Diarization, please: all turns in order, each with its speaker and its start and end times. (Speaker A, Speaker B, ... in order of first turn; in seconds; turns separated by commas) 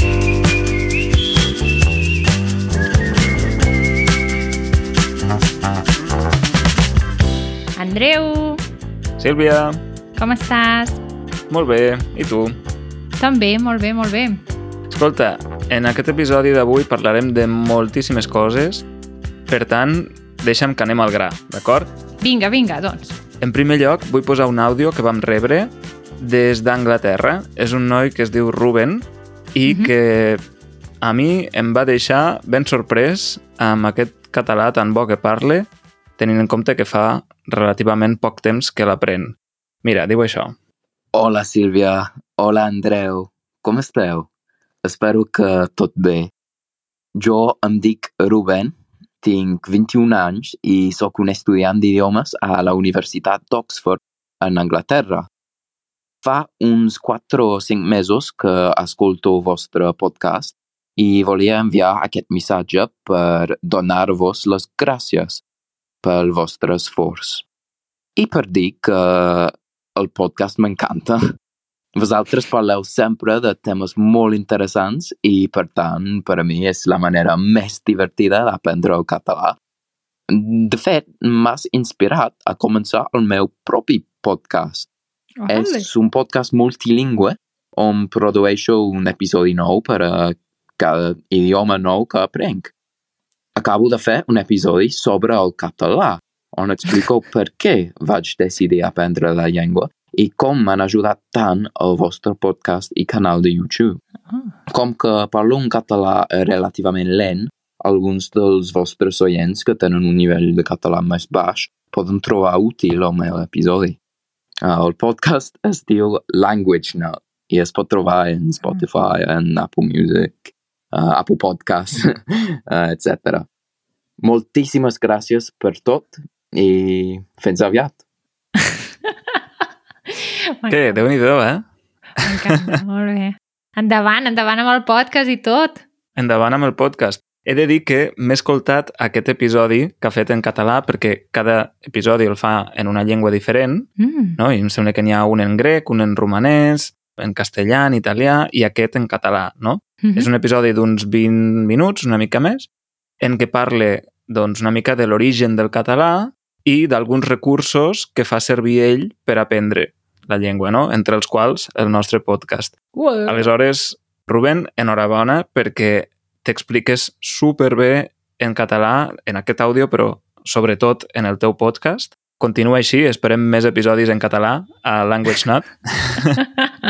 Speaker A: 7.8-8.6, Speaker B: 9.2-9.8, Speaker A: 10.2-11.0, Speaker B: 11.5-12.6, Speaker A: 13.2-14.4, Speaker B: 14.9-18.9, Speaker B: 19.5-21.9, Speaker A: 22.2-23.2, Speaker B: 23.4-30.4, Speaker A: 29.7-29.9, Speaker B: 31.0-35.7, Speaker B: 36.2-40.6, Speaker C: 41.1-44.3, Speaker C: 44.8-46.3, Speaker C: 47.1-55.3, Speaker C: 56.2-65.4, Speaker C: 66.0-67.5, Speaker C: 68.2-71.2, Speaker C: 72.0-79.6, Speaker C: 80.3-84.9, Speaker A: 85.4-85.9, Speaker C: 85.5-92.7, Speaker C: 93.6-104.0, Speaker A: 104.3-104.5, Speaker C: 104.7-114.0, Speaker C: 114.6-123.5, Speaker C: 124.2-128.0, Speaker A: 128.6-129.4, Speaker A: 130.1-131.0, Speaker B: 130.7-131.6, Speaker B: 132.2-132.7, Speaker A: 132.2-135.8, Speaker B: 136.2-152.7, Speaker A: 144.0-144.4, Speaker A: 150.0-150.3, Speaker B: 153.2-176.4, Speaker A: 162.9-163.4